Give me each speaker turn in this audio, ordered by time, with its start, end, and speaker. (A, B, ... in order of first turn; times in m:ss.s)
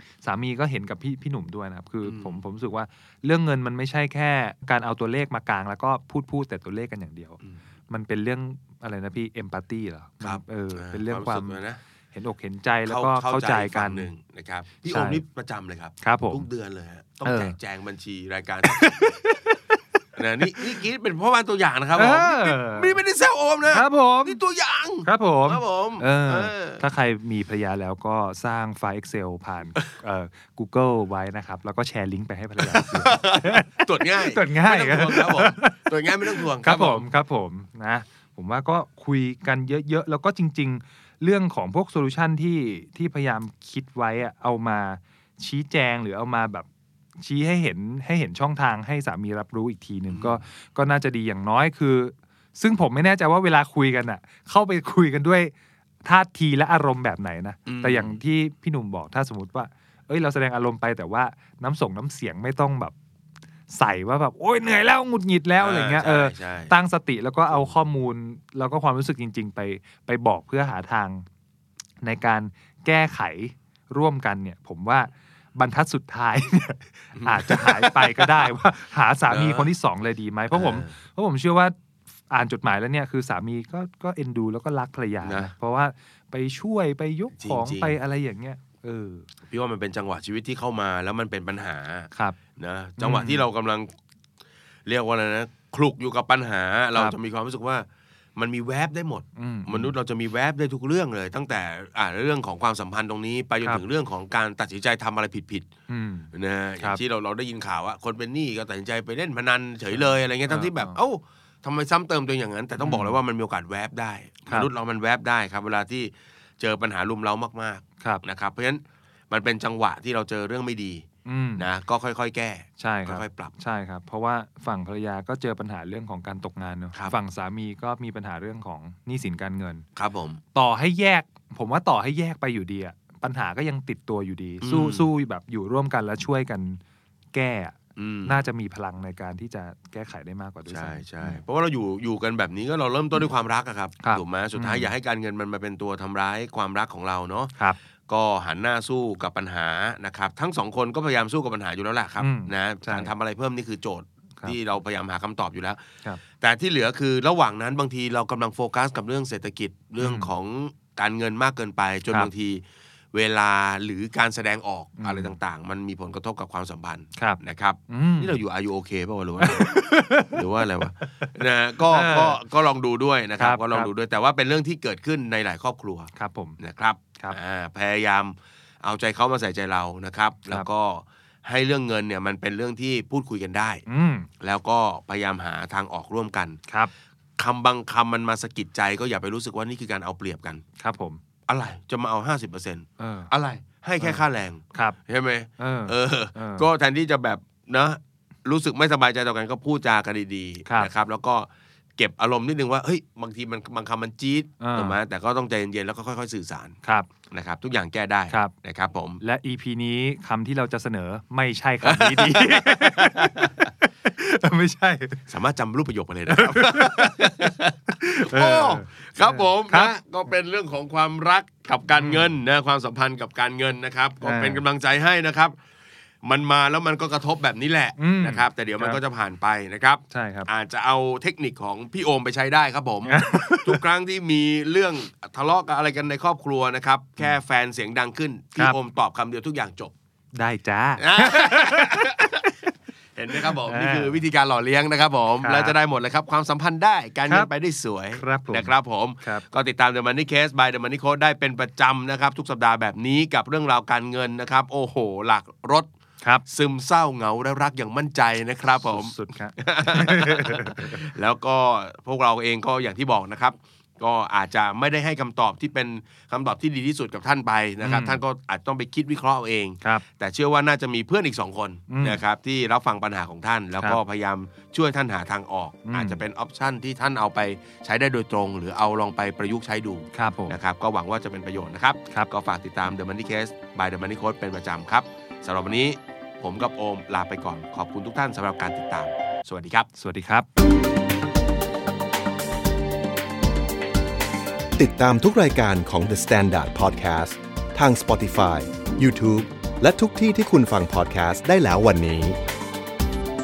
0:00.2-0:11.6 A
0:02.0-0:02.4 B
0:10.2-0:11.8 B
0:12.1-0:14.1 A
0:12.9-0:19.2 B
0:14.9-0:15.2 A
0:16.0-0:16.5 A
0:17.2-0:17.6 A
0:18.6-0:19.6 A
0:20.2-0:26.8 B
0:22.0-0:23.0 A
0:23.7-0:24.4 A
0:25.0-0:46.7 A
0:32.6-0:37.0 B
0:47.2-0:55.5 A
0:50.1-0:50.4 B
0:56.0-1:03.0 A
0:57.7-0:58.2 B
1:03.7-1:11.2 A
1:05.6-1:06.7 B
1:12.0-1:21.8 A
1:17.2-1:18.5 B
1:19.3-1:19.7 B
1:20.5-1:20.9 B
1:22.3-1:29.2 A
1:25.2-1:25.5 B
1:27.4-1:28.0 B
1:29.5-1:33.9 B
1:33.0-1:33.4 A
1:34.9-1:45.7 B
1:39.4-1:40.0 A
1:45.9-1:47.0 A
1:46.3-2:01.1 B
1:50.0-1:51.0 A
1:52.8-1:53.2 A
2:01.2-2:01.7 A
2:01.6-2:03.5 B
2:02.8-2:09.8 A
2:10.0-2:10.4 B
2:10.5-2:16.8 A
2:14.6-2:15.1 B
2:17.3-2:21.4 A
2:18.0-2:18.4 B
2:20.7-2:27.5 B
2:24.0-2:24.9 A
2:28.1-3:03.8 B
2:32.2-2:33.1 A
2:40.0-2:40.3 A
2:45.0-2:45.3 A
2:47.2-2:48.4 A
2:49.4-2:50.4 A
2:51.9-2:52.4 A
2:53.4-2:53.9 A
2:56.2-2:56.6 A
3:03.9-3:04.3 A
3:04.4-3:06.6 B
3:07.4-3:10.6 B
3:10.8-3:11.2 A
3:11.5-3:26.8 B
3:13.0-3:13.3 A
3:15.6-3:16.7 A
3:20.6-3:20.9 A
3:24.6-3:25.0 A
3:26.8-3:27.1 A
3:27.3-3:29.2 B
3:29.2-3:35.2 A
3:31.8-3:33.7 B
3:35.3-3:45.6 B
3:36.3-3:39.9 A
3:42.0-3:42.3 A
3:44.2-3:44.6 A
3:46.2-3:59.9 B
3:48.0-3:49.0 A
3:50.1-3:50.5 A
3:53.0-3:53.8 A
4:00.4-4:02.2 A
4:01.0-4:02.4 B
4:03.2-4:15.9 B
4:03.3-4:04.2 A
4:05.4-4:05.8 A
4:08.1-4:09.4 A
4:16.5-4:49.9 B
4:18.8-4:21.1 A
4:27.8-4:28.2 A
4:31.9-4:32.2 A
4:35.9-4:36.2 A
4:40.1-4:40.6 A
4:50.0-4:50.5 A
4:54.8-5:02.4 C